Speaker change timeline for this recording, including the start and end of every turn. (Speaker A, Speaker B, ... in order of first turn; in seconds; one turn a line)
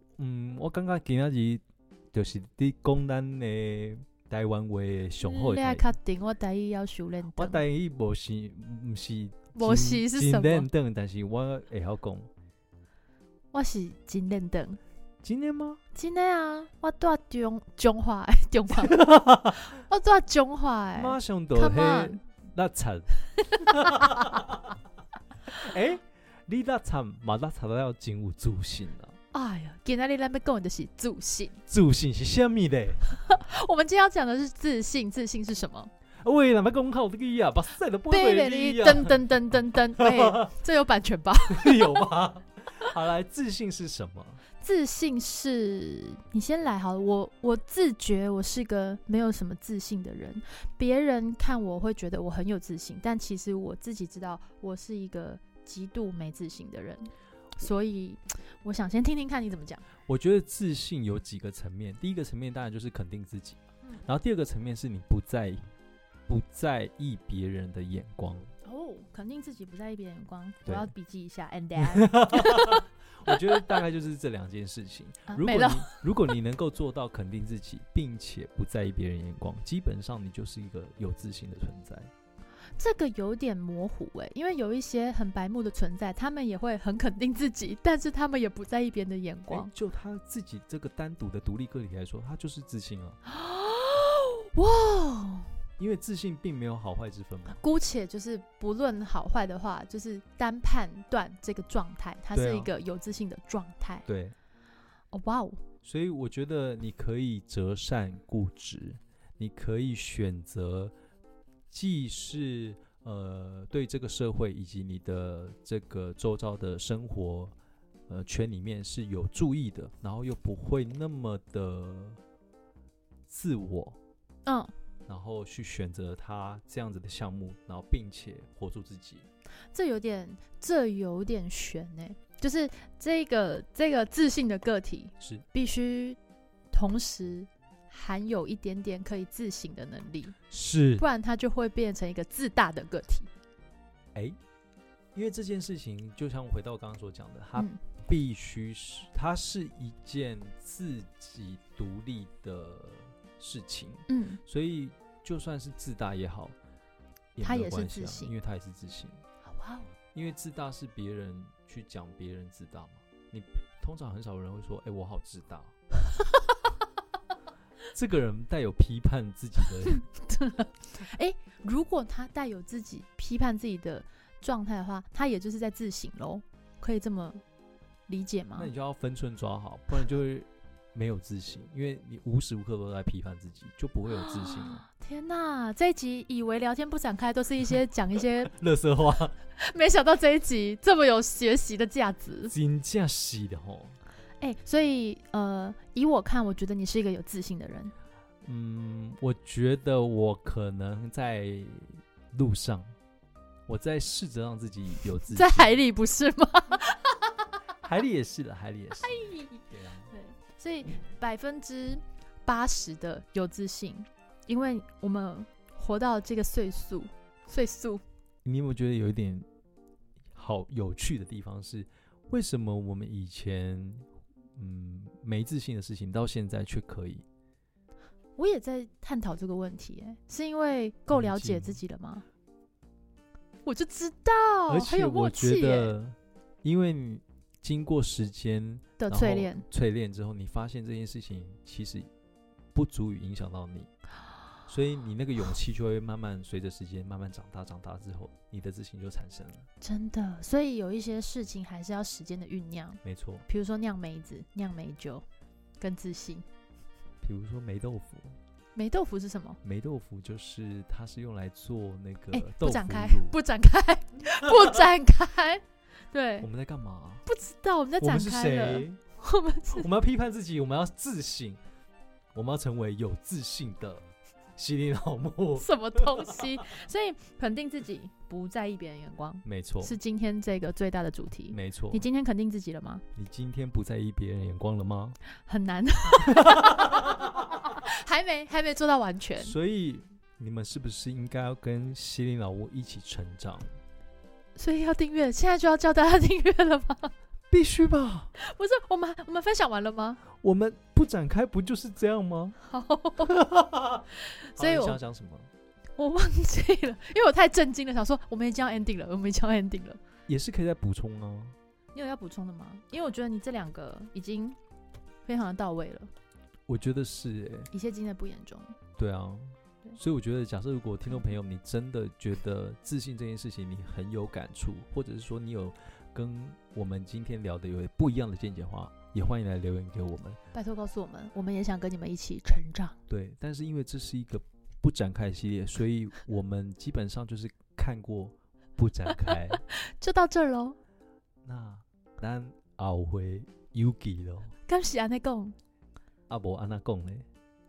Speaker A: 0.2-1.6
Speaker A: 2.1-5.9
Speaker B: 5.2-7.6
Speaker A: 7.3-12.3
Speaker B: 9.6-10.7
Speaker B: 13.5-14.8
Speaker A: 15.2-15.8
Speaker B: 15.9-22.2
Speaker A: 18.9-19.6
Speaker A: 20.9-24.6
Speaker B: 23.5-24.4
Speaker A: 25.6-29.2
Speaker B: 29.3-31.6
Speaker A: 31.7-33.0
Speaker B: 33.1-35.9
Speaker A: 36.2-40.5
Speaker B: 38.1-42.1
Speaker A: 41.5-44.4
Speaker B: 44.6-59.9
Speaker A: 60.0-65.7
Speaker A: 66.3-68.5
Speaker B: 68.7-73.6
Speaker A: 70.7-70.9
Speaker A: 71.8-82.1
Speaker B: 75.3-76.0
Speaker B: 82.8-89.7
Speaker A: 89.5-93.2
Speaker B: 93.3-95.6
Speaker A: 95.8-97.6
Speaker B: 97.5-104.1
Speaker A: 102.3-102.7
Speaker A: 104.1-104.3
Speaker B: 105.1-105.6
Speaker A: 105.8-110.9
Speaker A: 111.7-117.5
Speaker A: 118.1-122.2
Speaker A: 123.3-124.0
Speaker B: 124.4-124.7
Speaker A: 125.1-129.2
Speaker B: 129.7-136.2
Speaker A: 135.2-135.4
Speaker B: 136.7-140.4
Speaker A: 140.5-141.1
Speaker B: 141.0-143.3
Speaker A: 145.1-156.5
Speaker B: 154.1-154.4
Speaker A: 157.3-159.2
Speaker B: 157.4-158.3
Speaker B: 159.4-159.9
Speaker A: 160.1-165.7
Speaker A: 167.9-170.0
Speaker B: 169.9-177.4
Speaker B: 178.1-178.7
Speaker A: 178.6-184.8
Speaker B: 184.2-188.5
Speaker A: 188.4-189.3
Speaker B: 189.6-192.5
Speaker A: 192.5-194.0
Speaker B: 194.4-197.9
Speaker A: 198.4-202.9
Speaker A: 203.7-205.8
Speaker B: 205.3-207.5
Speaker A: 207.8-209.2
Speaker B: 209.0-218.0
Speaker A: 209.7-210.1
Speaker A: 218.4-219.4
Speaker A: 220.3-227.2
Speaker B: 228.4-232.2
Speaker A: 231.1-231.8
Speaker B: 233.6-235.9
Speaker A: 234.7-242.1
Speaker B: 239.0-239.6
Speaker A: 242.7-243.9
Speaker A: 244.7-249.7
Speaker B: 249.8-255.2
Speaker A: 253.0-253.4
Speaker B: 255.8-256.4
Speaker A: 257.2-258.4
Speaker B: 258.8-259.6
Speaker A: 259.6-263.4
Speaker B: 262.3-266.5
Speaker A: 266.4-267.2
Speaker B: 267.2-269.9
Speaker A: 268.0-269.0
Speaker A: 269.7-271.6
Speaker A: 272.3-274.1
Speaker A: 274.6-276.4
Speaker B: 275.6-283.0
Speaker A: 279.4-280.0
Speaker A: 281.5-282.0
Speaker A: 283.1-285.2
Speaker B: 285.3-289.6
Speaker A: 286.3-286.9
Speaker A: 289.4-293.8
Speaker B: 294.6-297.1
Speaker A: 297.5-298.3
Speaker B: 298.4-300.2
Speaker A: 300.3-302.6
Speaker B: 302.6-303.4
Speaker A: 303.2-305.5
Speaker B: 304.2-305.0
Speaker B: 306.0-310.0
Speaker A: 310.3-311.6
Speaker B: 311.9-314.6
Speaker B: 315.2-316.1
Speaker A: 316.7-317.7
Speaker B: 317.7-318.8
Speaker A: 319.0-330.4
Speaker B: 330.5-333.0
Speaker A: 333.1-339.6
Speaker B: 339.6-340.8
Speaker A: 341.4-344.6
Speaker B: 344.7-345.6
Speaker A: 346.3-347.2